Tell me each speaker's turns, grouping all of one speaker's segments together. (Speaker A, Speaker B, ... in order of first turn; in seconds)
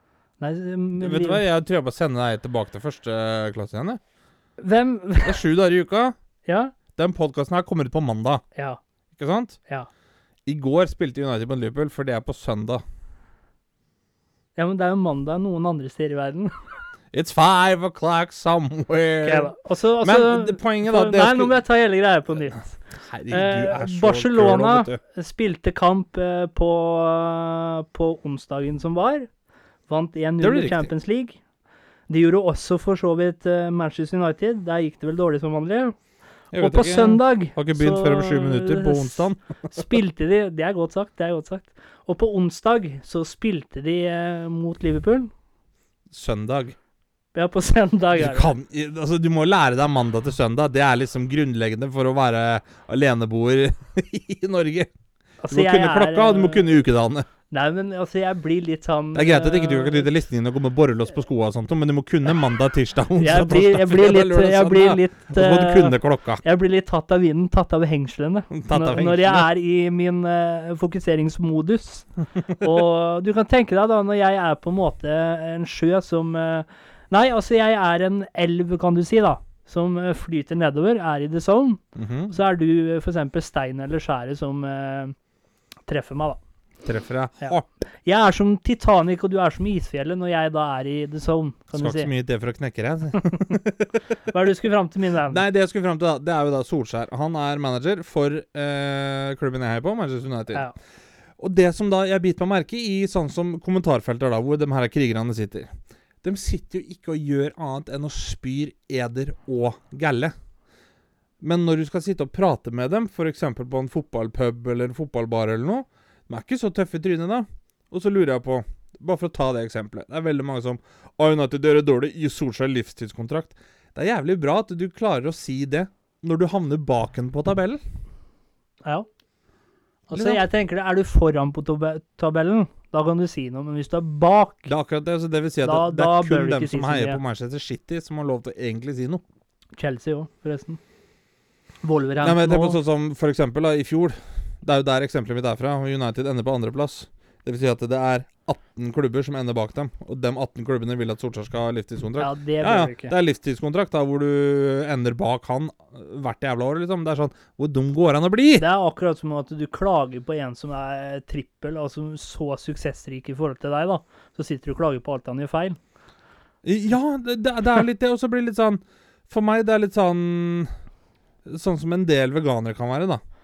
Speaker A: 0.4-1.4, 4.6-5.4, 6.5-6.7, 14.6-16.5, 19.2-29.3, 29.9-31.4, 32.1-36.0, 36.5-45.3, 47.3-48.5, 55.4-56.7, 57.5-60.1, 63.2-85.1, 85.9-86.4, 87.4-92.1, 93.2-93.6, 94.2-95.4, 130.1-134.7, 135.6-137.2, 139.8-140.8, 141.8-142.8, 152.2-153.1, 158.6-165.8
Speaker B: 1.0-4.0, 5.2-6.1, 7.0-8.4, 9.2-9.6, 10.4-12.8, 17.1-21.5, 23.0-25.0, 30.4-30.9, 36.5-39.8, 46.1-46.8, 48.1-54.9, 55.5-57.2, 59.1-66.4, 68.5-69.5, 81.9-82.3, 86.8-87.7, 91.7-94.0, 95.3-100.7, 101.4-105.7, 106.2-110.3, 111.4-127.8, 130.1-130.4, 134.7-139.2, 142.2-158.6, 166.6-170.7, 171.4-173.2